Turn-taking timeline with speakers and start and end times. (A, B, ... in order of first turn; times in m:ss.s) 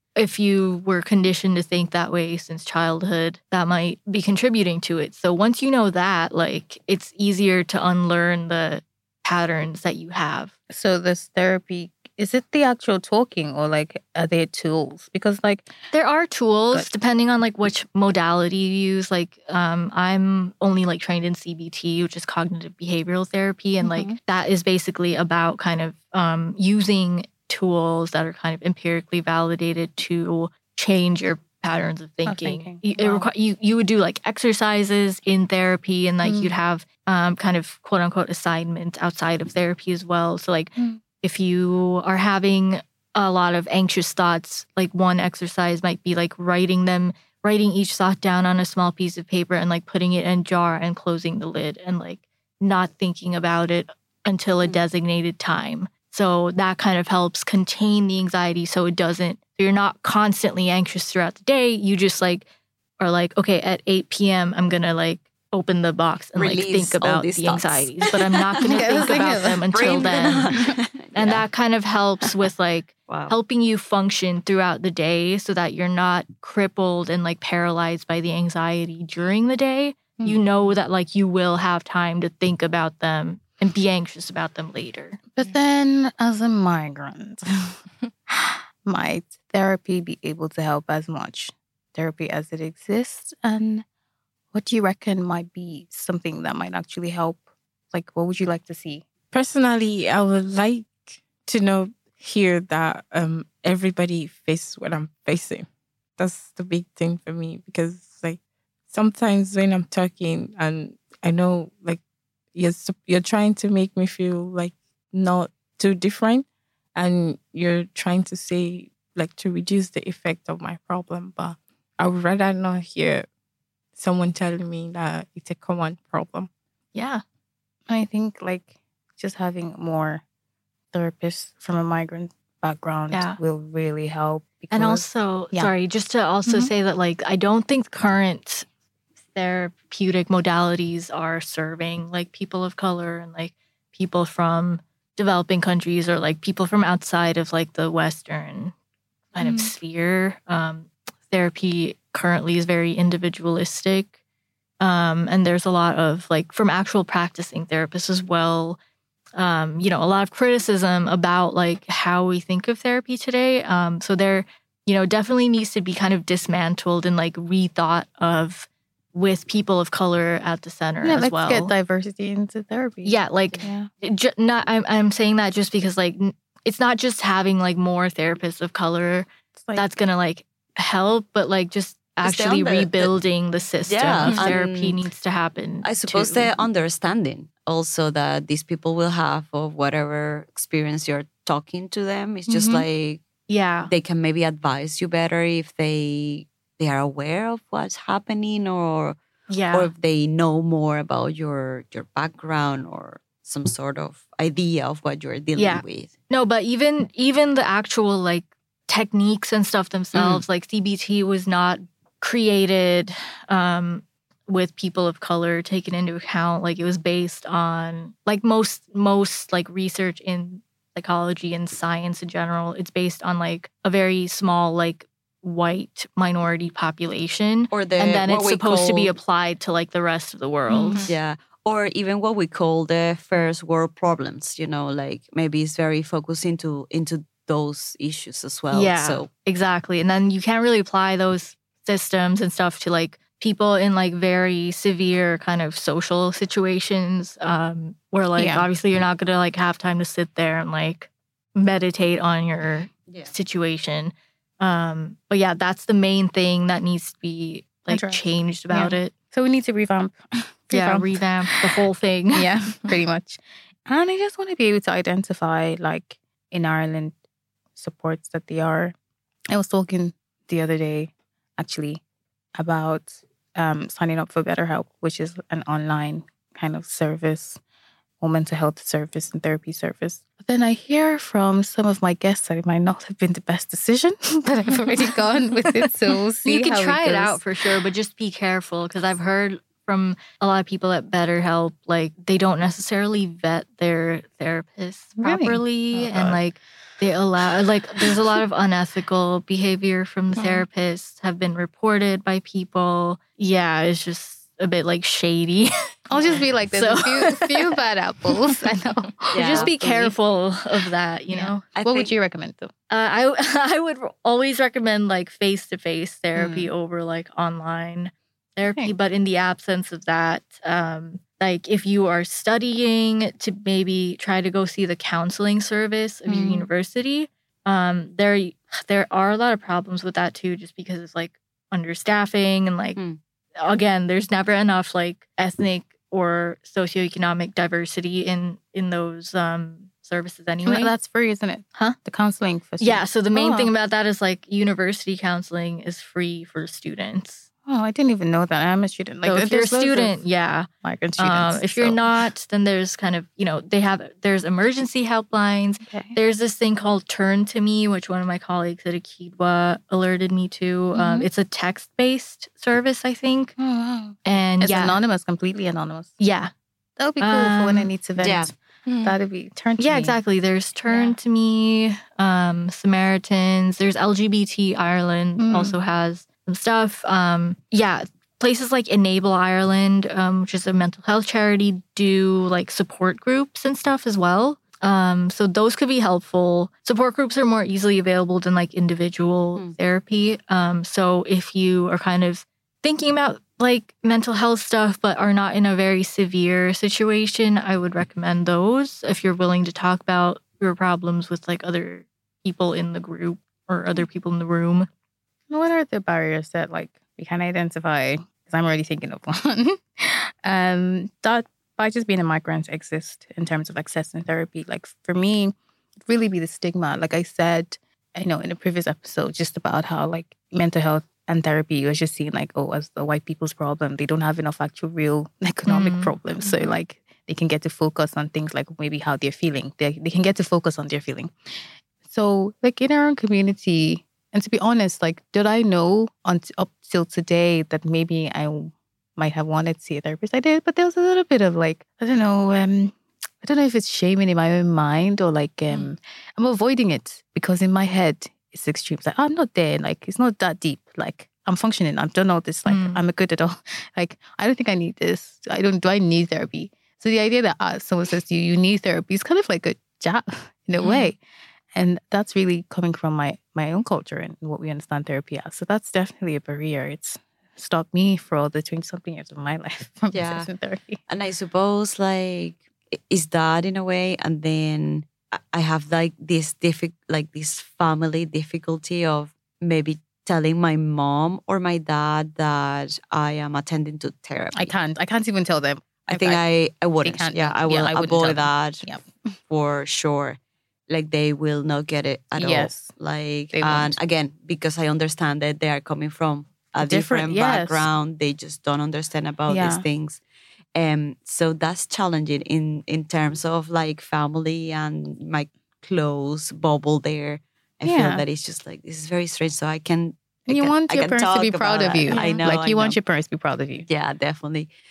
0:00.2-0:10.5 A
0:10.7-0:15.7 B
0:15.9-1:02.4 A
0:23.8-0:24.2 B
0:32.2-0:33.3 B
0:36.2-0:36.5 B
1:03.0-1:10.5 A
1:06.4-1:11.4 C
1:08.6-1:10.7 B
1:11.1-1:25.2 A
1:13.1-1:13.3 C
1:20.2-1:20.4 B
1:25.3-1:33.8 B
1:34.5-1:39.0 B
1:39.3-1:52.0 D
1:52.5-2:03.2 D
2:04.0-2:06.5 D
2:06.9-2:07.2 A
2:07.9-2:10.2 B
2:10.9-2:15.7 B
2:13.1-2:13.4 A
2:14.7-2:18.6 A
2:16.4-2:16.7 B
2:19.3-2:28.7 A
2:29.3-2:34.1 A
2:29.4-2:29.7 B
2:34.8-2:38.8 A
2:39.4-2:51.7 A
2:51.0-2:53.9 B
2:53.0-3:06.5 A
2:59.5-2:59.8 B
3:02.2-3:03.1 C
3:03.8-3:05.0 C
3:04.2-3:04.5 D
3:05.8-3:13.2 C
3:12.5-3:12.8 B
3:13.5-3:13.9 A
3:13.9-3:19.2 C
3:19.5-3:19.9 A
3:19.7-3:26.1 C
3:25.6-3:51.1 A
3:30.1-3:30.4 C
3:47.7-3:49.1 C
3:50.7-3:51.1 B
3:51.1-3:59.3 C
3:58.7-4:19.1 A
4:08.4-4:08.7 B
4:13.1-4:13.3 C
4:17.9-4:21.7 B
4:20.7-4:22.5 A
4:22.3-4:27.2 B
4:27.8-4:28.9 B
4:29.5-4:32.0 B
4:32.6-4:37.6 B
4:38.2-4:47.4 B
4:46.4-5:07.7 A
4:55.2-4:56.4 B
5:06.1-5:09.7 B
5:09.3-5:10.1 C
5:09.4-5:11.6 A
5:11.3-5:12.7 B
5:11.7-5:12.1 C
5:12.9-5:33.0 A
5:16.3-5:16.7 B
5:18.7-5:18.9 B
5:26.2-5:26.7 B
5:33.6-5:40.9 A
5:40.6-5:43.7 B
5:42.8-5:47.4 A
5:47.6-5:50.2 B
5:49.2-5:50.7 A
5:50.8-5:52.0 B
5:51.2-6:03.5 A
5:55.8-5:56.2 B
6:00.9-6:01.3 B
6:03.6-6:06.2 B
6:04.2-6:05.0 A
6:06.2-6:06.5 A
6:07.0-6:10.2 B
6:07.2-6:07.9 A
6:08.2-6:08.5 C
6:08.9-6:09.1 D
6:09.8-6:44.9 A
6:10.9-6:11.2 B
6:15.4-6:15.7 B
6:45.5-7:41.2 B
7:05.6-7:06.1 A
7:32.7-7:33.0 A
7:40.8-7:41.1 A
7:41.7-7:51.0 B
7:50.1-7:50.5 C
7:51.1-8:04.7 C
8:04.5-8:06.4 B
8:06.1-8:08.9 C
8:07.0-8:09.1 B
8:09.5-8:10.4 C
8:10.9-8:20.2 C
8:12.4-8:12.9 B
8:13.5-8:14.0 B
8:16.8-8:17.9 B
8:19.5-8:19.8 B
8:20.8-8:33.0 C
8:27.8-8:28.2 B
8:30.5-8:33.9 B
8:32.1-8:32.4 A
8:33.9-8:34.7 C